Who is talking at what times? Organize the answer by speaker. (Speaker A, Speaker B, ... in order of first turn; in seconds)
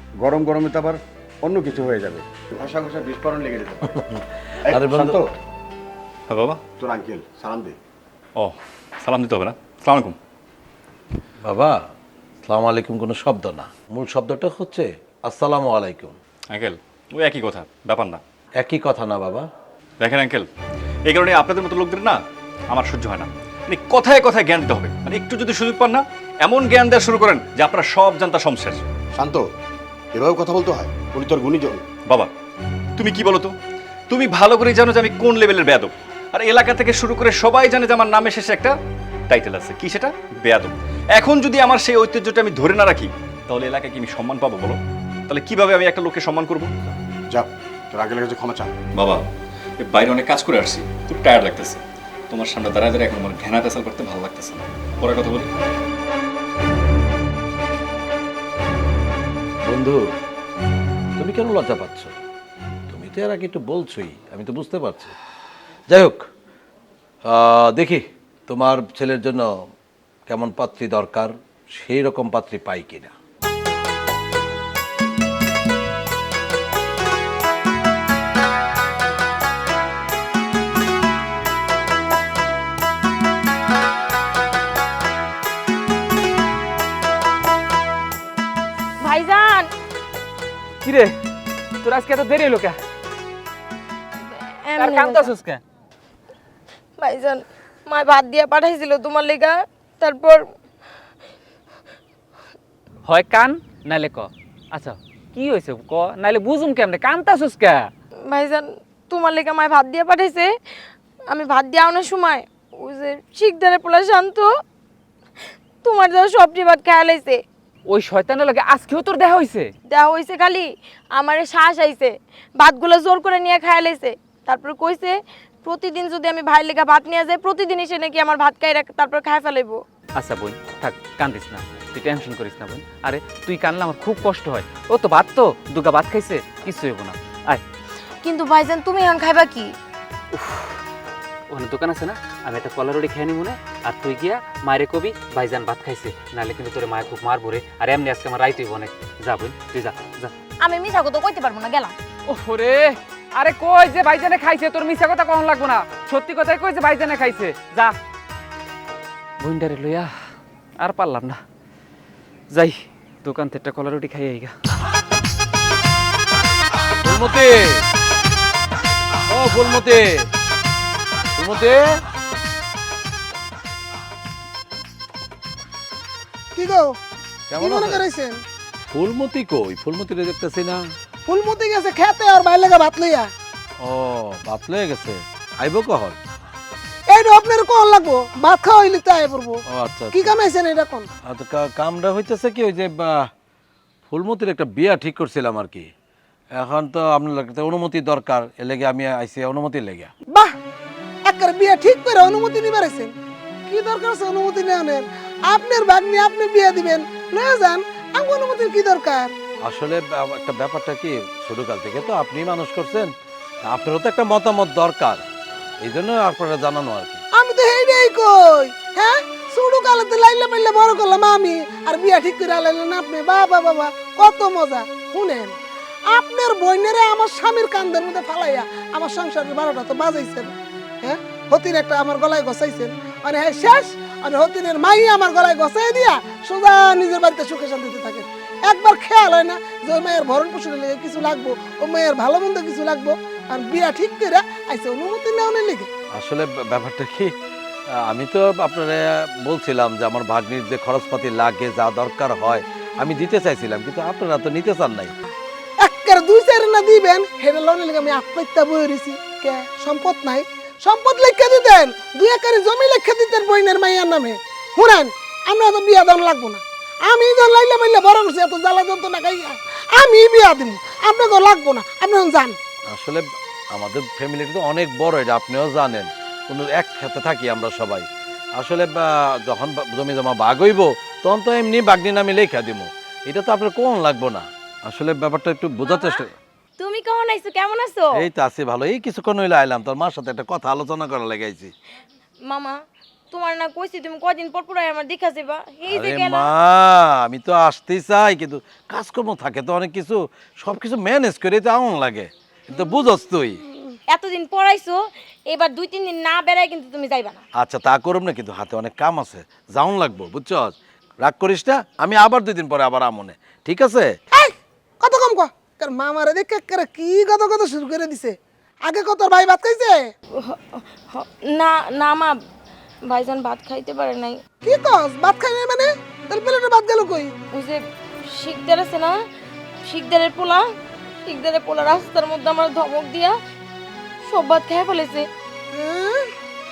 Speaker A: 0.2-4.0, 4.7-5.3, 6.8-7.8, 29.2-29.4, 30.1-31.8, 47.3-48.7
Speaker B: 4.0-5.2, 11.4-11.8, 12.4-16.2, 18.6-19.5, 59.6-60.0, 61.2-62.1, 62.9-65.1, 65.9-66.3, 67.2-69.7, 70.3-73.1, 167.0-167.8, 169.3-170.3, 171.3-171.8, 177.5-178.0, 178.9-180.8, 183.8-186.2, 189.7-190.4, 191.2-193.3, 194.1-195.9, 196.6-200.1, 209.6-215.2, 215.8-217.2, 246.1-247.3, 247.9-255.1, 272.9-286.3, 288.2-291.7, 295.9-303.6, 307.6-314.2
Speaker C: 6.3-6.6, 8.3-10.2, 16.5-18.2, 20.0-20.5, 21.1-28.8, 33.0-33.5, 34.1-38.7, 39.3-46.7, 48.9-49.2, 49.8-55.5
Speaker D: 89.0-89.7, 94.2-95.3, 97.0-100.4, 108.3-110.5, 111.3-114.5, 115.8-117.4, 119.9-129.8, 138.2-139.7, 150.6-151.9, 285.9-286.2, 286.8-288.1, 292.5-292.8, 293.3-296.5, 304.1-307.4, 320.4-322.4, 323.1-324.4, 327.5-329.1, 329.8-330.6, 331.3-333.4, 334.3-335.3
Speaker E: 90.8-91.2, 91.8-92.8, 94.8-95.6, 103.0-107.9, 117.9-119.7, 130.2-137.6, 140.3-140.8, 141.5-150.3, 152.3-157.9, 159.4-160.1, 160.8-161.4, 162.5-164.5
Speaker F: 176.5-176.9, 177.6-178.4, 181.2-183.3, 187.1-191.1, 200.3-200.6, 201.2-203.1, 203.7-209.3, 217.3-225.6, 226.1-245.9, 255.8-272.6, 314.3-320.1, 324.6-327.3, 335.7-336.3